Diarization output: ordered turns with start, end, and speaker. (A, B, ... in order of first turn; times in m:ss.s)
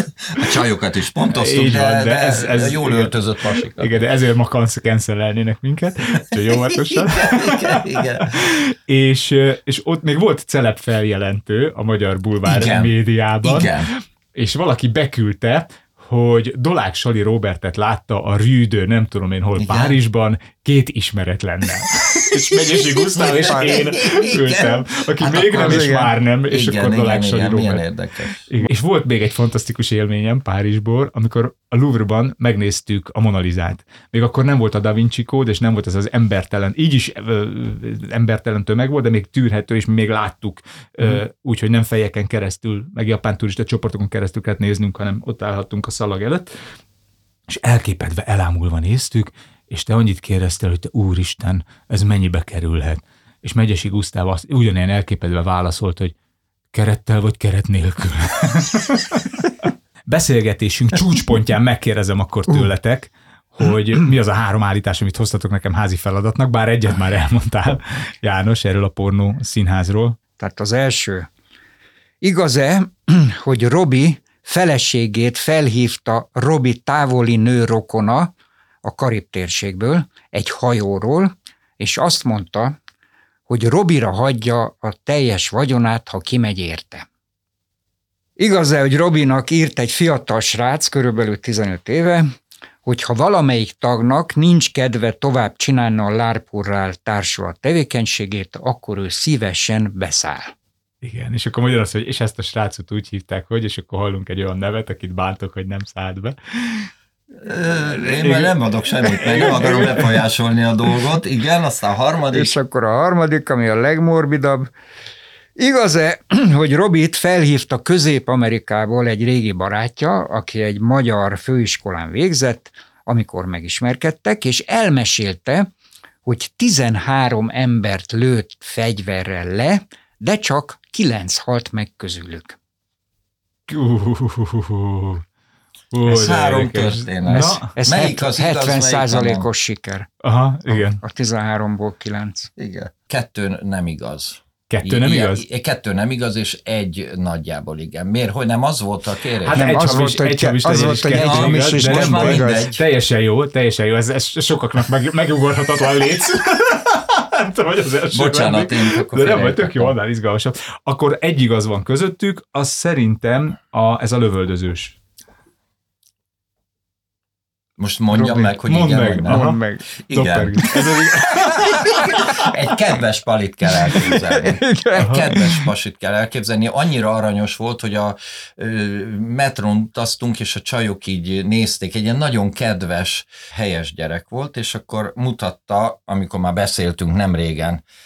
0:00.3-0:04.0 A
0:01.3-0:03.1 B
0:03.8-0:27.8 B
0:06.3-0:08.4 A
0:12.4-0:13.9 A
0:19.6-0:20.0 A
0:22.4-0:26.0 A
0:25.6-0:26.1 C
0:26.5-0:28.5 A
0:28.5-0:46.6 B
0:47.5-0:56.1 B
0:56.7-1:10.2 B
1:10.4-1:11.3 C
1:12.2-1:18.3 C
1:18.8-1:22.8 C
1:23.5-1:27.0 C
1:28.4-1:32.3 C
1:32.8-1:40.5 C
1:41.0-1:46.9 B
1:47.4-1:52.5 A
1:48.2-1:48.5 B
1:49.1-1:50.1 B
1:52.3-1:54.7 C
1:55.6-2:05.7 C
2:06.2-2:12.6 C
2:13.7-2:15.2 B
2:15.9-2:17.7 B
2:16.0-2:19.4 A
2:17.3-2:20.1 C
2:20.2-2:21.0 B
2:20.7-2:22.5 C
2:22.6-2:29.9 A
2:24.7-2:25.4 B
2:29.5-2:32.6 C
2:29.5-2:45.0 B
2:31.1-2:32.8 A
2:38.1-2:39.9 A
2:47.8-3:07.8 A
2:48.1-2:49.6 B
2:49.3-2:49.8 C
2:50.1-2:52.3 B
2:54.1-2:55.6 C
2:55.0-2:55.3 B